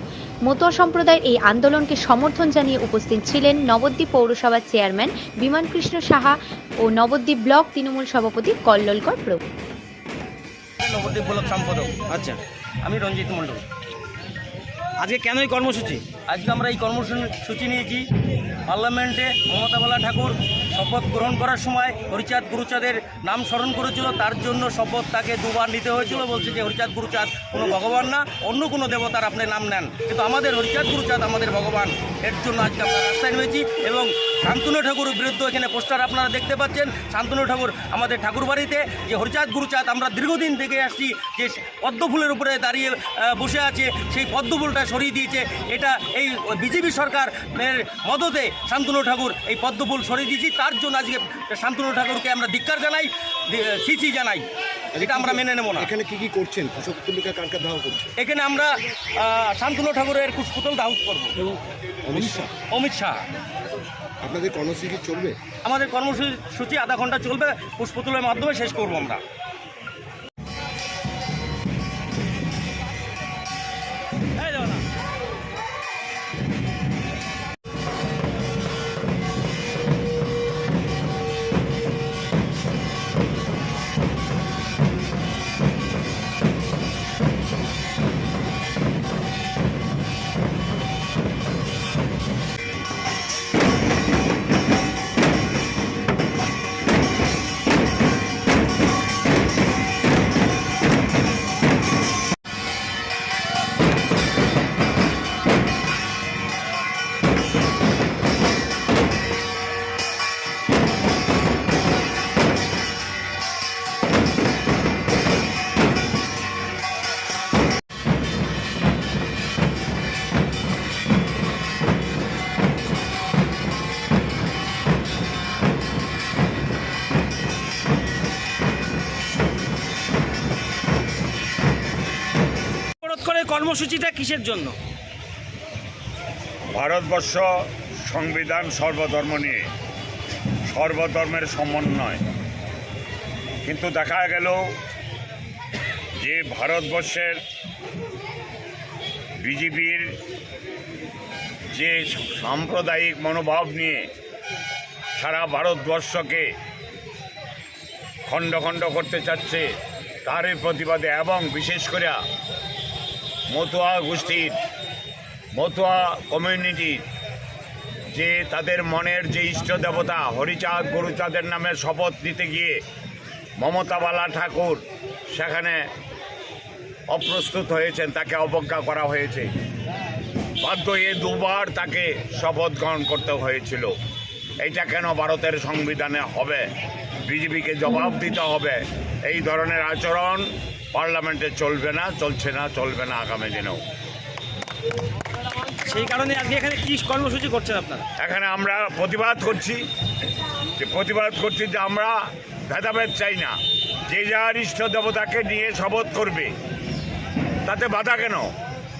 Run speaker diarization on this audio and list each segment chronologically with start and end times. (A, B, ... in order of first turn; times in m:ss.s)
0:00.5-0:09.4 A
0:10.8-0:12.0 B
0:12.1-0:12.4 C
0:12.8-0:13.6 B
0:15.0-0:16.0 C
0:16.3-0:18.0 B
0:18.7-0:54.4 B
0:54.9-0:58.1 D
0:55.0-0:55.9 B
0:58.2-1:01.5 B
1:02.0-1:02.5 D
1:02.7-1:03.2 B
1:04.2-1:05.4 D
1:05.6-1:09.2 B
1:14.4-1:14.8 C
2:13.0-2:14.8 C
2:16.7-2:19.6 E
2:20.7-2:22.2 E
2:23.6-2:24.6 E
2:26.2-2:27.4 E
2:29.4-2:30.1 E
2:31.7-2:34.0 E
2:35.2-2:36.5 E
2:38.3-2:39.7 E
2:40.2-2:42.2 E
2:43.5-2:44.6 E
2:45.6-2:47.0 E
2:48.1-2:52.8 E
2:53.6-2:55.8 E
2:57.1-2:59.5 E
3:00.6-3:03.9 E
3:04.6-3:06.7 E
3:07.2-3:13.8 E
3:15.7-3:18.0 C
3:18.2-3:19.8 E
3:20.7-3:26.5 E
3:27.6-3:28.5 E